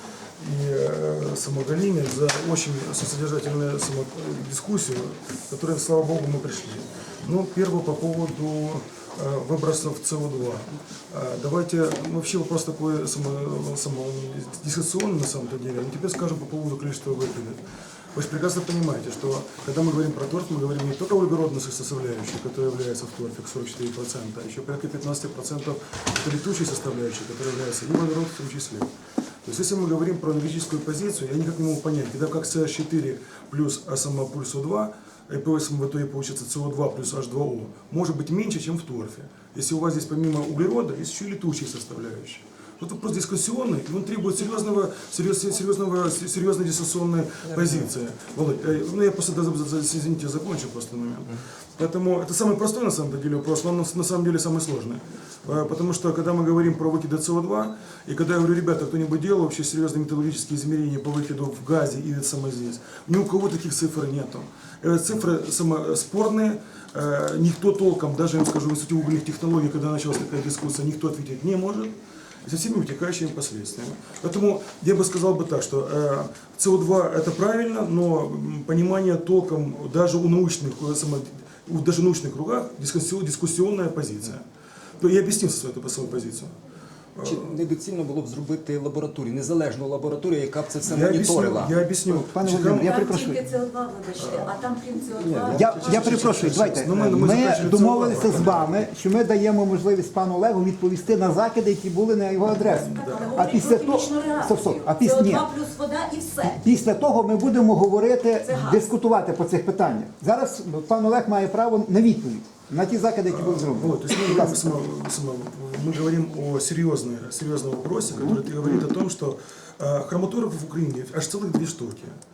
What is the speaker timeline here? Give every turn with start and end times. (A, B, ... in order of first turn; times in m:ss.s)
0:00.4-0:17.6 A
0:18.1-0:28.9 A
0:29.4-1:24.4 A
1:25.0-1:26.5 A
1:27.2-1:27.5 A
1:27.2-1:31.8 B
1:30.9-1:33.1 A
1:32.1-1:33.4 C
1:32.7-1:36.3 D
1:34.2-1:34.5 A
1:35.2-1:36.8 B
1:35.4-1:38.7 A
1:35.5-1:45.5 C
1:42.6-1:43.6 A
1:42.9-1:46.6 D
1:46.6-1:54.8 C
1:48.4-1:48.8 D
1:53.3-2:02.2 A